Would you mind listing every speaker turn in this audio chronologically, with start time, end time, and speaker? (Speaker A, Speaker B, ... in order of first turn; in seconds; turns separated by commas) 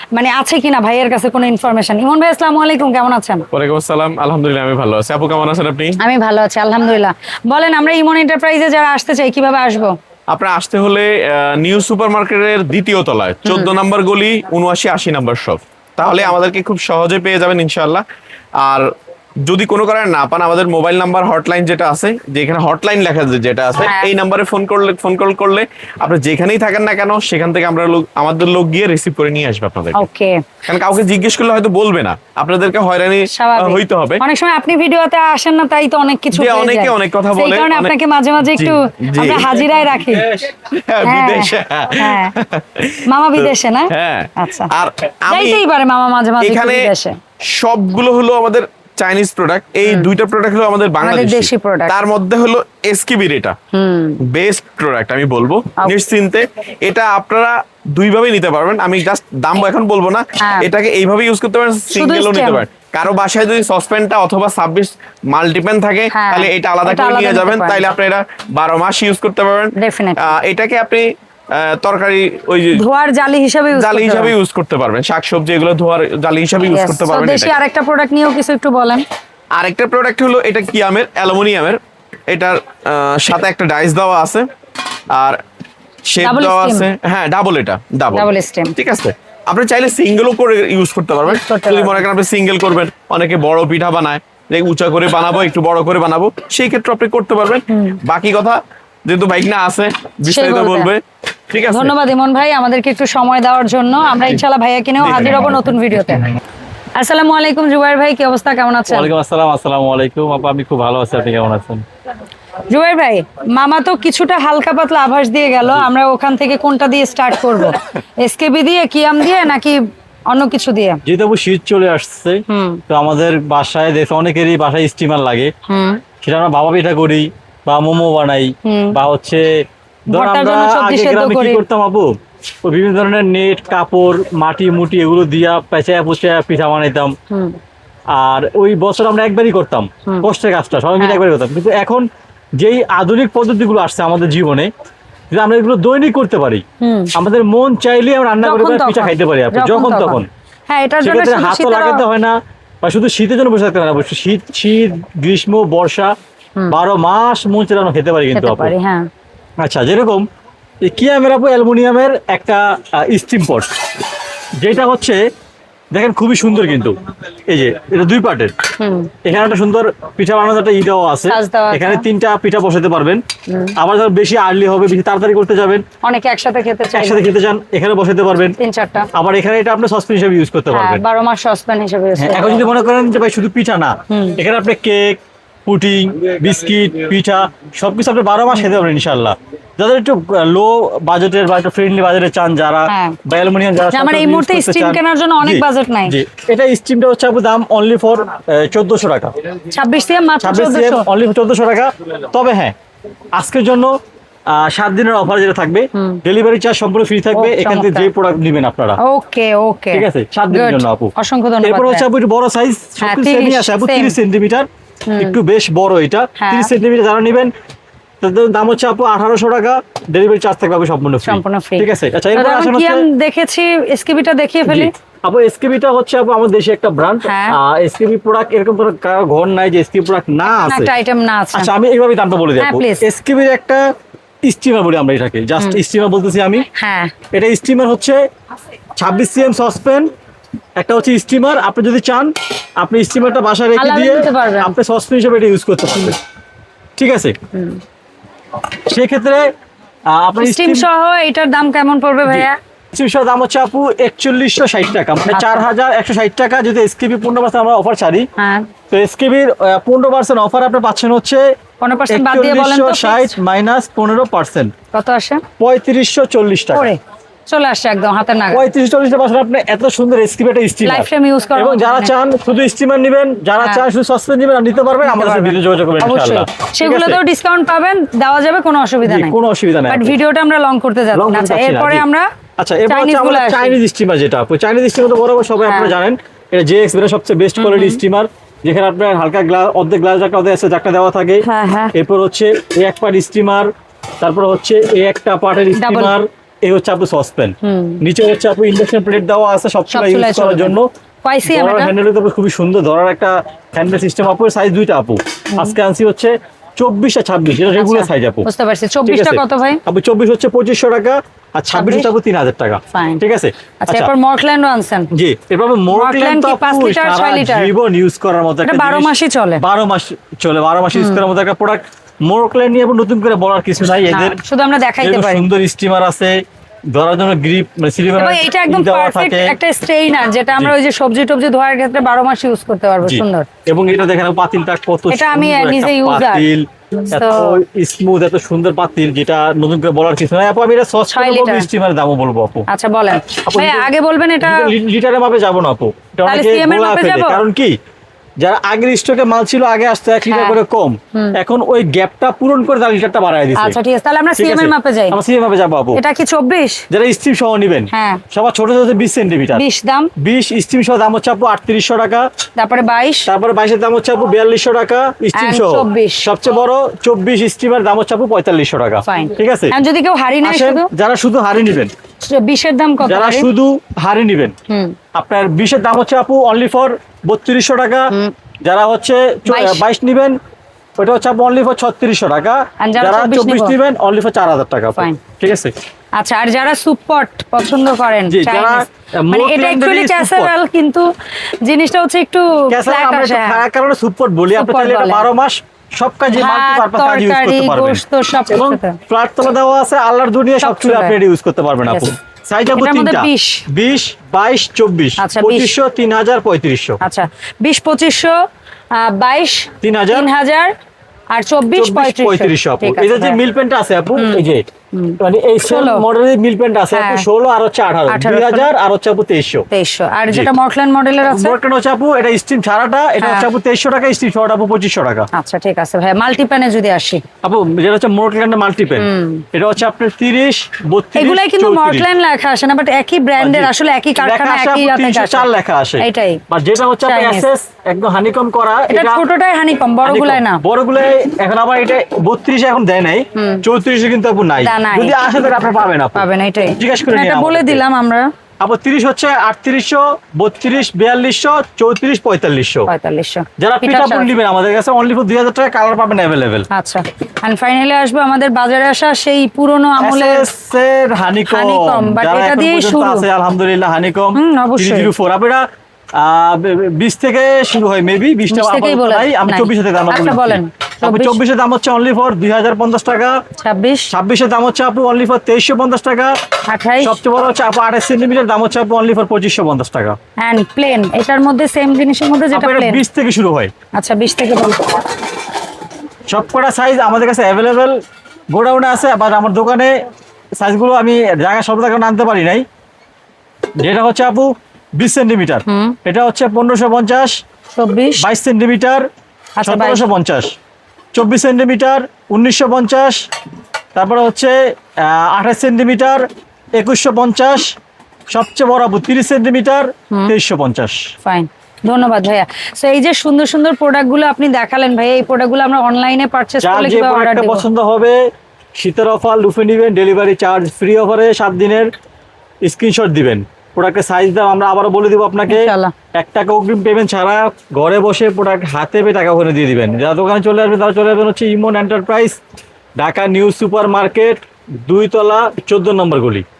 Speaker A: 0.1-3.4, Speaker B: 3.5-6.0, Speaker A: 6.0-9.9, Speaker B: 10.3-18.0, Speaker A: 13.4-13.7, Speaker A: 16.0-16.3, Speaker B: 18.6-18.9, Speaker B: 19.4-30.0, Speaker A: 23.8-24.1, Speaker A: 29.9-30.4, Speaker B: 30.7-34.2, Speaker A: 33.3-40.4, Speaker B: 36.3-37.9, Speaker B: 38.5-45.6, Speaker A: 41.0-42.3, Speaker A: 43.0-44.7, Speaker A: 45.3-47.2, Speaker B: 46.4-46.9, Speaker B: 47.4-53.5, Speaker A: 49.8-50.1, Speaker A: 51.0-52.0, Speaker A: 53.7-54.2, Speaker B: 54.3-72.8, Speaker A: 60.4-60.7, Speaker A: 61.9-62.6, Speaker A: 66.1-67.8, Speaker A: 69.8-70.3, Speaker A: 72.7-74.3, Speaker B: 73.7-77.5, Speaker A: 76.6-79.0, Speaker B: 79.5-84.5, Speaker B: 85.1-85.4, Speaker B: 86.1-101.9, Speaker A: 86.2-86.9, Speaker A: 88.1-88.7, Speaker A: 91.2-92.1, Speaker A: 97.7-98.0, Speaker A: 100.2-100.9, Speaker A: 101.7-106.3, Speaker B: 105.0-105.6, Speaker A: 107.0-109.1, Speaker C: 108.9-111.8, Speaker A: 112.7-121.0, Speaker C: 121.0-125.5, Speaker A: 122.5-122.8, Speaker A: 125.7-126.0, Speaker C: 126.2-137.1, Speaker A: 128.6-129.0, Speaker A: 130.1-131.6, Speaker A: 137.3-137.6, Speaker C: 138.1-144.7, Speaker C: 145.3-150.3, Speaker A: 146.8-147.1, Speaker A: 148.4-152.0, Speaker C: 151.0-156.1, Speaker C: 156.7-158.7, Speaker A: 158.3-159.0, Speaker C: 159.6-160.2, Speaker C: 160.8-163.7, Speaker C: 164.6-165.2, Speaker C: 165.9-166.9, Speaker C: 167.5-168.5, Speaker A: 168.8-169.1, Speaker C: 169.2-173.2, Speaker A: 171.3-172.0, Speaker A: 173.5-173.8, Speaker C: 173.8-175.8, Speaker A: 176.0-177.2, Speaker C: 176.9-178.6, Speaker A: 178.6-179.1, Speaker C: 179.1-181.0, Speaker A: 180.7-182.7, Speaker C: 182.2-199.3, Speaker A: 184.1-184.4, Speaker A: 192.9-193.2, Speaker A: 193.9-196.2, Speaker A: 199.7-201.1, Speaker C: 200.4-202.7, Speaker C: 203.3-203.9, Speaker C: 204.5-209.0, Speaker A: 205.9-206.2, Speaker A: 207.3-208.1, Speaker A: 209.0-212.1, Speaker C: 209.9-214.7, Speaker A: 213.0-214.2, Speaker A: 215.1-215.4, Speaker C: 215.2-217.5, Speaker A: 216.4-216.7, Speaker C: 218.2-223.1, Speaker A: 221.2-224.9, Speaker C: 224.7-230.9, Speaker A: 227.2-227.6, Speaker A: 230.5-231.7, Speaker C: 231.5-233.9, Speaker A: 232.6-233.1, Speaker C: 234.4-236.6, Speaker A: 236.7-237.1, Speaker C: 237.3-238.2, Speaker C: 239.0-240.1, Speaker C: 240.8-246.2, Speaker A: 243.8-244.7, Speaker C: 247.0-247.3, Speaker A: 247.5-247.8, Speaker C: 248.7-249.5, Speaker C: 250.1-250.9, Speaker A: 250.4-252.6, Speaker C: 252.2-258.3, Speaker A: 255.3-255.6, Speaker A: 258.4-258.7, Speaker C: 258.9-261.5, Speaker A: 261.8-263.4, Speaker C: 262.1-264.7, Speaker A: 264.9-265.4, Speaker C: 265.6-266.9, Speaker A: 266.7-268.7, Speaker C: 268.5-277.2, Speaker A: 270.8-272.1, Speaker A: 273.6-273.9, Speaker A: 275.0-279.4, Speaker C: 279.0-280.1, Speaker A: 279.9-282.3, Speaker C: 281.1-282.0, Speaker C: 282.6-293.7, Speaker A: 282.9-283.8, Speaker A: 285.6-285.9, Speaker A: 287.6-288.0, Speaker A: 291.4-291.9, Speaker C: 294.2-300.9, Speaker A: 295.7-296.1, Speaker A: 297.6-298.0, Speaker A: 299.9-301.9, Speaker C: 301.5-308.5, Speaker A: 307.7-309.8, Speaker C: 309.1-314.1, Speaker A: 311.7-312.1, Speaker A: 312.9-313.2, Speaker A: 313.8-315.1, Speaker C: 315.1-324.4, Speaker A: 315.9-317.7, Speaker A: 318.6-319.6, Speaker A: 320.9-321.2, Speaker A: 324.1-325.5, Speaker C: 325.0-326.4, Speaker C: 326.9-329.6, Speaker A: 328.1-333.5, Speaker C: 333.0-342.7, Speaker A: 335.1-337.6, Speaker A: 341.1-341.7, Speaker A: 342.7-344.7, Speaker C: 343.4-347.8, Speaker A: 346.2-347.4, Speaker C: 348.4-353.8, Speaker A: 350.3-350.6, Speaker A: 351.1-351.4, Speaker A: 353.6-355.2, Speaker C: 354.4-356.0, Speaker A: 355.9-356.8, Speaker C: 356.9-359.6, Speaker A: 357.9-358.2, Speaker A: 359.5-360.1, Speaker C: 360.2-362.3, Speaker A: 362.6-363.3, Speaker C: 363.3-369.8, Speaker A: 365.3-366.3, Speaker A: 369.0-370.9, Speaker C: 370.4-371.9, Speaker A: 372.2-373.5, Speaker C: 373.0-374.5, Speaker A: 374.7-374.9, Speaker C: 375.1-380.4, Speaker A: 379.5-379.8, Speaker C: 381.0-385.7, Speaker A: 382.8-383.8, Speaker A: 386.2-391.1, Speaker C: 388.3-390.5, Speaker A: 391.6-393.6, Speaker C: 392.7-407.0, Speaker A: 394.6-395.3, Speaker A: 396.3-399.0, Speaker A: 400.6-401.2, Speaker A: 401.9-402.1, Speaker A: 402.7-403.6, Speaker A: 405.2-405.7, Speaker A: 407.0-408.4, Speaker A: 408.9-410.7, Speaker C: 409.8-410.3, Speaker A: 411.3-413.4, Speaker C: 411.8-414.6, Speaker A: 414.2-416.0, Speaker C: 415.2-419.7, Speaker A: 416.9-417.2, Speaker A: 418.1-418.7, Speaker A: 419.7-421.6, Speaker C: 421.3-425.3, Speaker A: 423.2-423.5, Speaker A: 425.3-427.2, Speaker C: 427.4-432.1, Speaker A: 429.0-429.4, Speaker A: 431.1-435.5, Speaker C: 433.4-439.2, Speaker A: 436.0-436.4, Speaker A: 437.0-437.4, Speaker A: 438.9-440.6, Speaker C: 440.0-447.8, Speaker A: 443.4-443.6, Speaker A: 444.6-445.1, Speaker A: 446.1-448.3, Speaker C: 448.6-452.9, Speaker A: 452.9-454.3, Speaker C: 453.6-456.7, Speaker A: 456.7-460.5, Speaker C: 460.0-465.6, Speaker A: 461.5-463.2, Speaker A: 464.3-465.1, Speaker C: 466.1-473.4, Speaker A: 468.5-471.4, Speaker A: 473.6-474.1, Speaker C: 474.1-476.3, Speaker A: 476.7-477.1, Speaker C: 477.0-480.2, Speaker A: 480.4-483.0, Speaker C: 482.5-483.7, Speaker A: 483.9-485.0, Speaker C: 486.3-488.0, Speaker C: 488.5-490.0, Speaker C: 490.6-492.6, Speaker C: 493.8-497.4, Speaker A: 495.7-495.9, Speaker A: 497.7-498.3, Speaker C: 498.2-499.1, Speaker A: 499.6-500.0, Speaker C: 499.6-500.5, Speaker C: 501.1-503.3, Speaker C: 503.9-507.7, Speaker C: 508.3-511.1, Speaker A: 511.2-517.6, Speaker C: 516.6-518.2, Speaker C: 518.8-521.9, Speaker C: 522.6-532.4, Speaker A: 525.5-525.9, Speaker C: 533.0-536.4